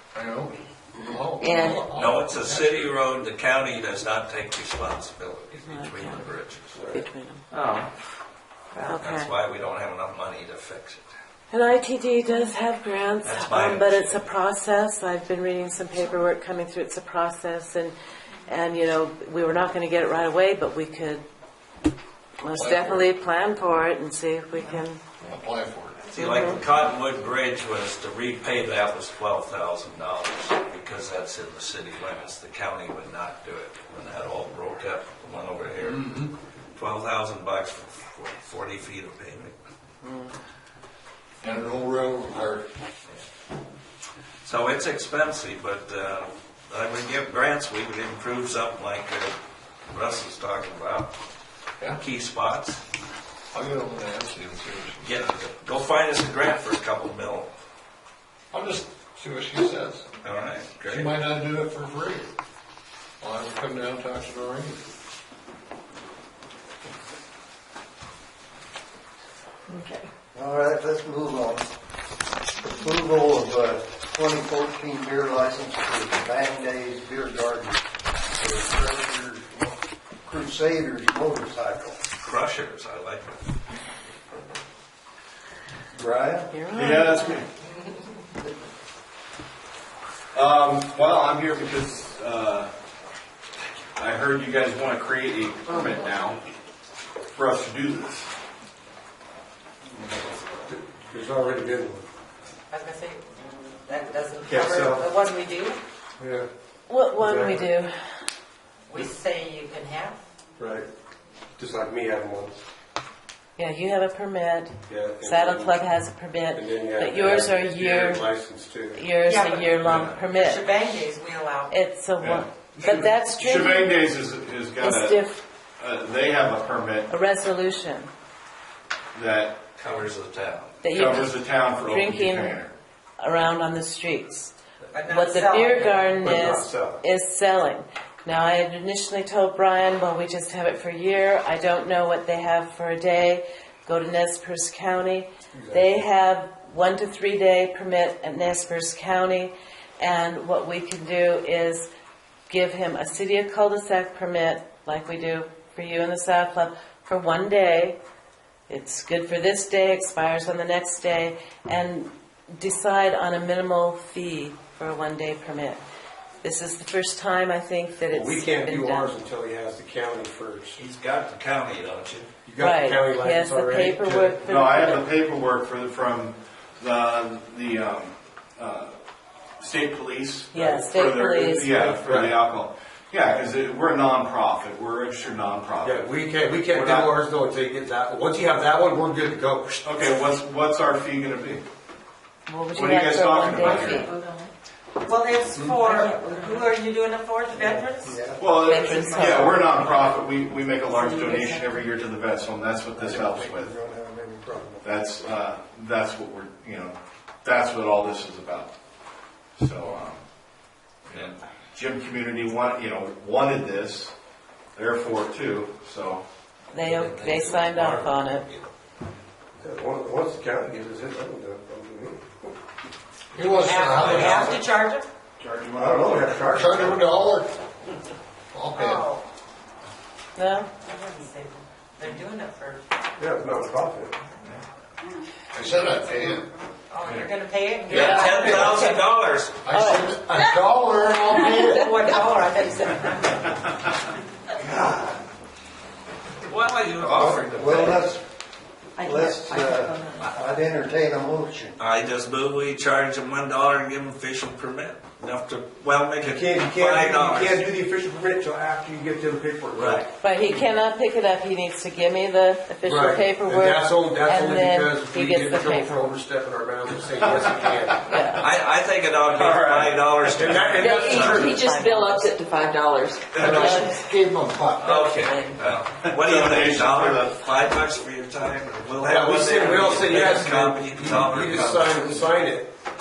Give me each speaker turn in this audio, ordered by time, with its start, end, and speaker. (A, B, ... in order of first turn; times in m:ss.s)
0:00.1-0:02.9 A
0:01.4-0:01.9 B
0:01.9-0:06.9 C
0:05.6-0:06.2 D
0:06.9-0:07.4 D
0:07.5-0:07.9 B
0:08.7-0:09.0 B
0:08.8-0:09.3 D
0:09.0-0:11.1 C
0:11.5-0:17.9 D
0:13.2-0:14.2 C
0:18.5-0:21.2 D
0:22.4-0:25.0 D
0:22.5-0:23.1 A
0:25.2-0:26.0 A
0:26.1-0:36.2 C
0:26.2-0:26.6 D
0:35.8-0:36.3 A
0:36.7-0:39.5 C
0:41.4-0:42.6 A
0:44.4-0:49.3 C
0:49.9-0:51.1 C
0:51.9-0:52.8 C
0:53.5-0:55.3 A
0:55.0-0:57.5 C
0:58.5-1:00.0 A
1:00.2-1:01.1 C
1:00.9-1:02.3 A
1:03.2-1:04.8 A
1:09.7-1:10.1 B
1:10.3-1:11.7 E
1:12.6-1:22.0 E
1:22.2-1:23.4 C
1:26.0-1:26.6 E
1:26.5-1:27.4 D
1:26.7-1:27.4 F
1:30.3-1:32.7 F
1:34.0-1:36.4 F
1:37.3-1:38.3 F
1:40.0-1:42.0 G
1:42.7-1:43.3 H
1:43.8-1:45.8 H
1:44.4-1:45.0 G
1:46.2-1:46.5 G
1:46.9-1:47.9 D
1:47.2-1:47.7 G
1:48.9-1:50.2 H
1:50.6-1:50.9 G
1:51.6-1:52.6 G
1:53.6-1:58.2 D
1:54.9-1:55.8 G
1:56.5-1:59.1 G
1:58.9-2:00.6 D
1:59.2-2:01.8 H
1:59.8-2:00.2 C
2:01.7-2:04.1 D
2:02.2-2:05.2 F
2:04.8-2:05.4 D
2:05.8-2:07.1 F
2:07.1-2:08.1 D
2:09.1-2:09.6 F
2:09.8-2:10.8 C
2:10.8-2:12.6 D
2:10.9-2:12.7 F
2:13.2-2:14.5 D
2:14.9-2:16.3 H
2:15.1-2:31.9 D
2:16.2-2:17.0 G
2:25.5-2:26.0 G
2:32.5-2:38.0 D
2:38.7-2:45.8 D
2:46.4-2:49.2 D
2:48.1-2:50.8 G
2:50.8-2:52.3 C
2:52.4-2:54.4 G
2:52.6-2:55.1 D
2:54.4-2:58.9 F
2:59.6-3:06.0 F
3:00.5-3:01.9 D
3:01.7-3:02.4 G
3:05.8-3:09.9 G
3:06.7-3:07.1 F
3:09.8-3:11.6 F
3:12.5-3:14.1 D
3:12.7-3:14.1 F
3:13.6-3:14.5 B
3:15.0-3:18.2 H
3:15.8-3:16.8 B
3:17.6-3:18.4 E
3:18.4-3:23.7 F
3:18.5-3:20.1 B
3:18.7-3:19.1 H
3:20.9-3:21.8 B
3:23.0-3:24.8 E
3:24.8-3:28.7 F
3:29.6-3:30.2 F
3:31.7-3:34.1 F
3:34.8-3:36.2 F
3:36.7-3:38.4 D
3:36.8-3:38.7 C
3:39.6-3:42.5 G
3:43.3-3:44.6 A
3:43.5-3:45.1 H
3:44.0-3:44.5 C
3:45.4-3:47.5 A
3:45.5-3:46.5 E
3:45.9-3:47.0 G
3:48.5-3:49.0 A
3:48.7-3:49.2 H
3:50.4-3:50.7 D
3:50.8-3:52.8 H
3:53.2-3:54.2 G
3:55.5-3:56.5 A
3:56.9-3:59.0 H
3:57.9-3:59.6 C
3:57.9-3:59.0 D
3:59.6-4:01.8 A
3:59.7-4:00.5 D
4:01.3-4:03.7 H
4:04.6-4:05.2 E
4:06.5-4:08.1 C
4:07.0-4:08.2 E
4:09.0-4:10.3 B
4:09.0-4:11.8 E
4:11.8-4:17.6 C
4:16.2-4:20.6 G
4:19.7-4:20.0 C
4:20.2-4:26.1 D
4:22.8-4:28.1 G
4:28.1-4:28.4 D
4:28.3-4:31.5 C
4:29.3-4:30.0 F
4:30.3-4:31.7 G
4:30.8-4:34.0 B
4:31.2-4:32.3 D
4:33.3-4:33.8 C
4:33.3-4:35.0 A
4:33.4-4:34.1 D
4:34.8-4:35.6 D
4:34.8-4:42.3 C
4:36.1-4:37.3 F
4:39.0-4:42.7 G